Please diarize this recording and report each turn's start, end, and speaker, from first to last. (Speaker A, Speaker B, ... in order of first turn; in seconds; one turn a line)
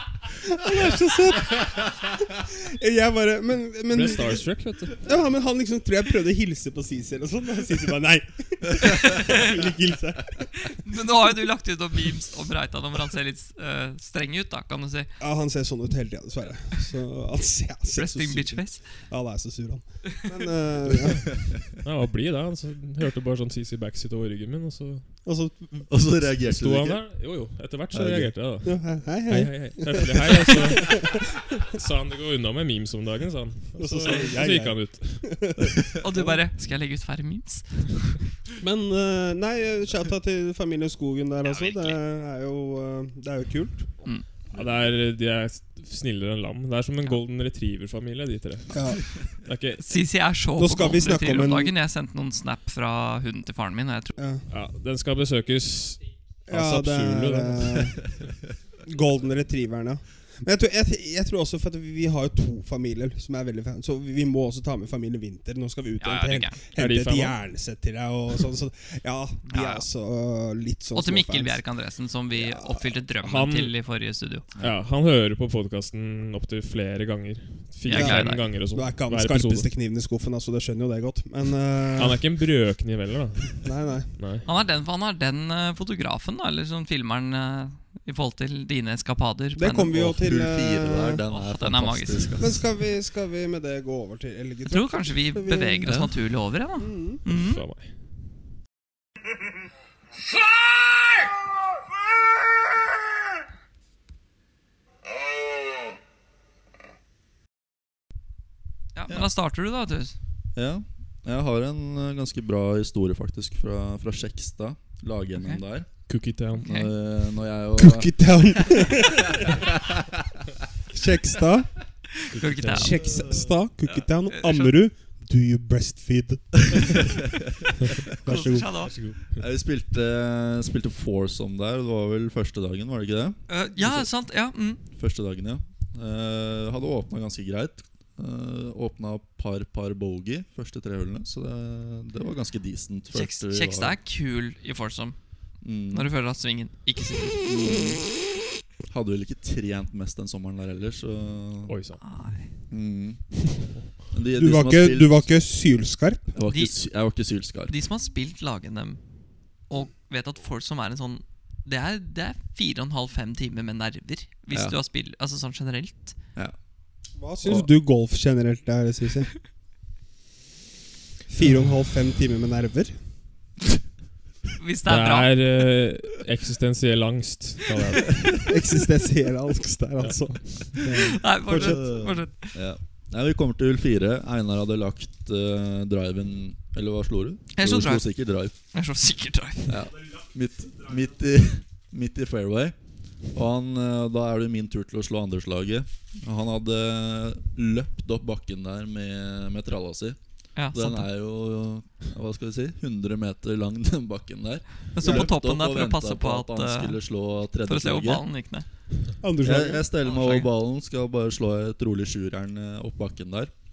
Speaker A: 0.4-10.8
Speaker B: 3.9-5.0
Speaker C: 10.7-15.1
Speaker A: 15.2-21.3
Speaker C: 18.0-18.9
Speaker B: 21.8-25.2
Speaker A: 25.2-25.9
Speaker D: 25.9-27.0
Speaker B: 26.4-35.5
Speaker D: 27.9-28.3
Speaker A: 28.6-31.2
Speaker A: 33.8-36.4
Speaker C: 36.0-38.2
Speaker A: 38.6-43.9
Speaker C: 41.4-42.0
Speaker B: 44.5-49.9
Speaker A: 48.7-49.0
Speaker C: 49.8-54.1
Speaker A: 50.6-51.7
Speaker A: 54.2-54.5
Speaker B: 54.5-58.1
Speaker A: 56.5-58.0
Speaker A: 58.8-71.6
Speaker C: 66.0-66.6
Speaker B: 66.8-67.4
Speaker C: 69.5-69.8
Speaker C: 71.0-74.5
Speaker A: 72.3-72.9
Speaker B: 73.2-73.7
Speaker B: 74.6-79.7
Speaker C: 77.9-78.5
Speaker A: 77.9-82.2
Speaker B: 82.0-84.5
Speaker A: 83.6-84.1
Speaker C: 84.5-90.0
Speaker A: 89.6-91.2
Speaker D: 89.9-92.6
Speaker C: 91.3-92.6
Speaker A: 92.4-96.0
Speaker C: 94.7-97.6
Speaker D: 95.9-96.1
Speaker A: 96.8-97.2
Speaker B: 97.3-97.9
Speaker C: 109.0-110.2
Speaker D: 110.5-116.1
Speaker B: 116.1-116.7
Speaker C: 116.6-116.9
Speaker D: 116.6-118.8
Speaker A: 117.8-119.6
Speaker D: 119.4-120.1
Speaker A: 120.9-121.8
Speaker C: 122.2-123.0
Speaker B: 122.3-123.0
Speaker A: 122.7-127.2
Speaker D: 123.0-123.5
Speaker C: 123.9-124.7
Speaker D: 126.8-127.1
Speaker D: 127.7-127.9
Speaker A: 128.2-128.7
Speaker C: 128.2-129.1
Speaker B: 128.8-129.4
Speaker D: 129.3-134.1
Speaker C: 133.5-134.8
Speaker D: 134.9-144.0
Speaker C: 143.1-145.2
Speaker D: 145.6-146.1
Speaker C: 145.9-148.0
Speaker D: 147.4-148.1
Speaker D: 148.9-151.8
Speaker B: 151.7-152.0
Speaker C: 152.0-152.5
Speaker D: 152.7-153.6
Speaker D: 154.1-155.3
Speaker A: 154.3-156.4
Speaker D: 156.3-157.7
Speaker C: 156.5-156.8
Speaker C: 157.7-159.0
Speaker C: 159.7-166.2
Speaker A: 167.2-169.3
Speaker A: 171.3-173.0
Speaker C: 174.6-175.3
Speaker B: 174.9-178.5
Speaker A: 178.5-181.8
Speaker B: 180.0-180.8
Speaker C: 180.9-182.6
Speaker D: 181.5-188.5
Speaker C: 187.5-189.8
Speaker D: 189.7-200.2
Speaker C: 200.6-201.1
Speaker D: 200.7-208.3
Speaker C: 204.9-208.7
Speaker A: 205.0-205.3
Speaker A: 209.2-209.9
Speaker D: 209.4-213.5
Speaker C: 210.0-210.5